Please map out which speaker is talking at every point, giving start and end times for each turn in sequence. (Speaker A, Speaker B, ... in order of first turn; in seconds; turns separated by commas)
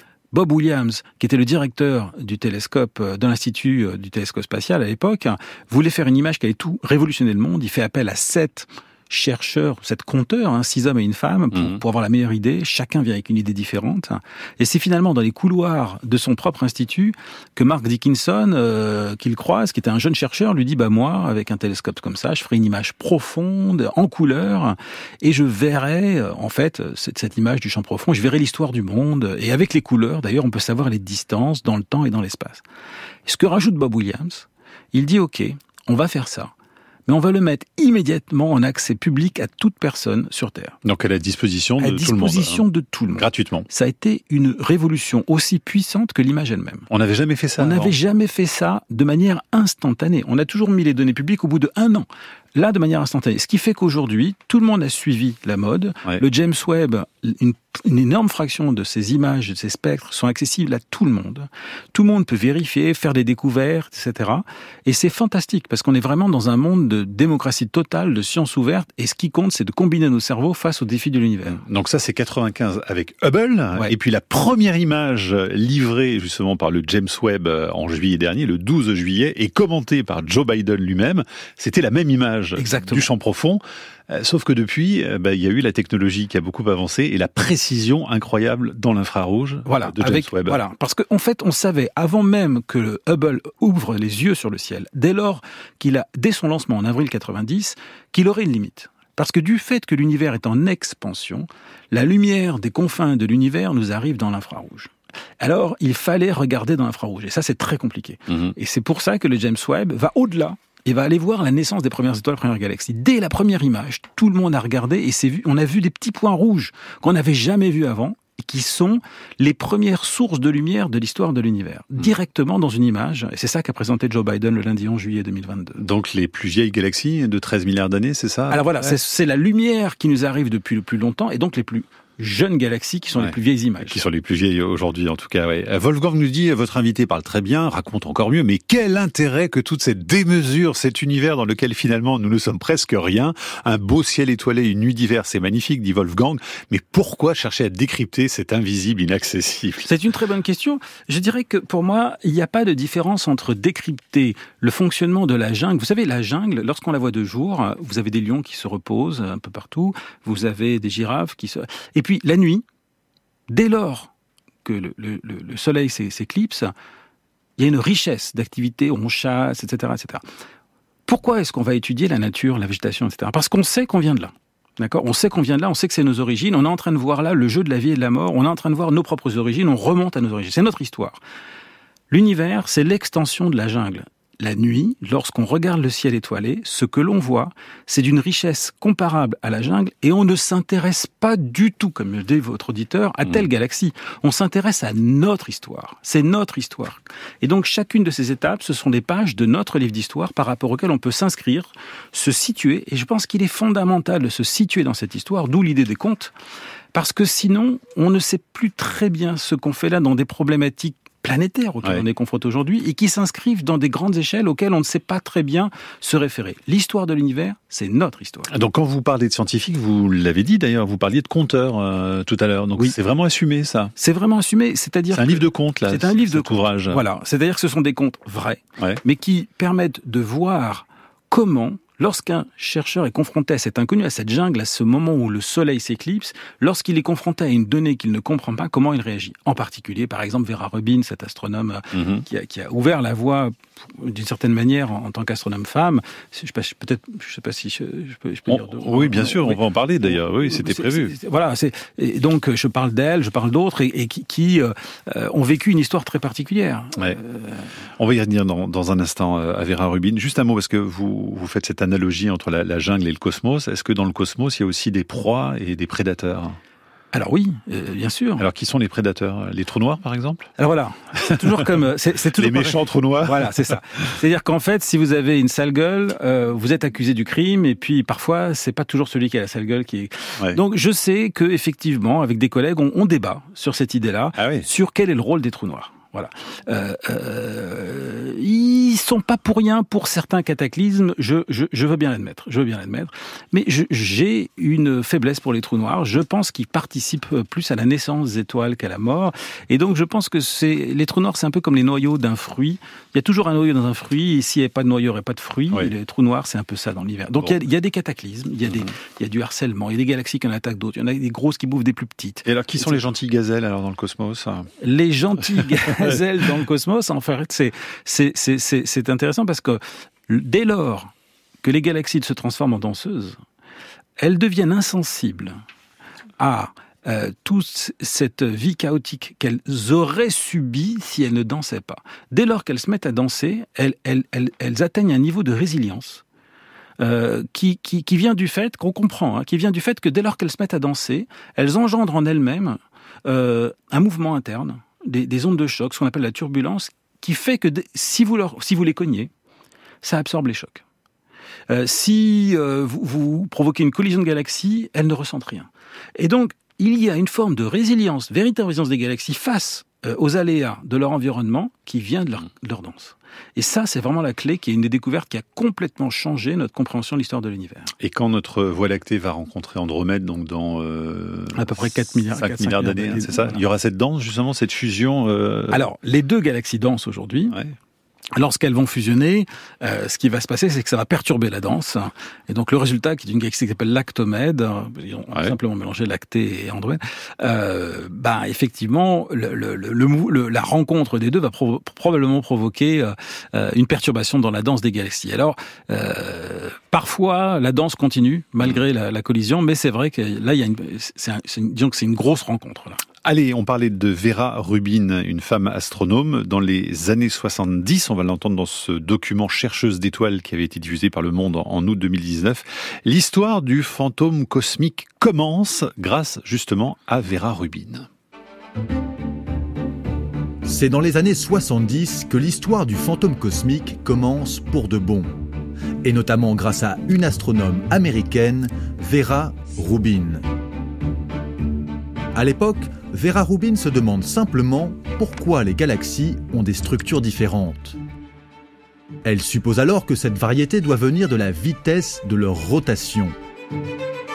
Speaker A: 0.3-32.6, Speaker B: 11.5-11.8, Speaker A: 33.3-36.5, Speaker A: 37.1-40.8, Speaker B: 40.8-43.7, Speaker A: 41.8-46.9, Speaker B: 46.9-47.9, Speaker A: 47.6-71.6, Speaker B: 71.5-90.6, Speaker A: 82.6-83.1, Speaker A: 89.7-125.8, Speaker B: 108.3-108.5, Speaker B: 125.8-129.0, Speaker A: 128.5-134.0, Speaker B: 133.2-149.9, Speaker A: 149.8-162.6, Speaker A: 163.5-164.1, Speaker A: 164.7-166.7, Speaker A: 167.6-170.2, Speaker A: 171.1-181.2, Speaker A: 182.1-206.3, Speaker A: 206.9-218.5, Speaker B: 218.5-223.9, Speaker A: 224.0-257.7, Speaker B: 225.1-227.0, Speaker B: 241.9-242.3, Speaker B: 248.5-251.1, Speaker B: 258.0-266.6, Speaker A: 267.1-268.4, Speaker B: 268.4-270.5, Speaker A: 270.6-313.0, Speaker B: 271.2-271.7, Speaker B: 272.3-273.8, Speaker B: 284.4-284.7, Speaker B: 308.6-308.9, Speaker B: 312.4-314.7, Speaker A: 314.8-321.1, Speaker B: 315.6-316.2, Speaker A: 321.6-323.4, Speaker A: 324.2-325.6, Speaker A: 326.4-336.2, Speaker A: 337.0-349.3, Speaker A: 350.0-350.8, Speaker A: 351.7-367.9, Speaker B: 368.0-375.8, Speaker A: 371.5-373.6, Speaker A: 375.7-377.6, Speaker A: 378.4-403.0, Speaker B: 403.2-418.1, Speaker C: 420.6-425.4, Speaker C: 426.0-430.4, Speaker C: 432.3-438.0, Speaker C: 439.2-443.4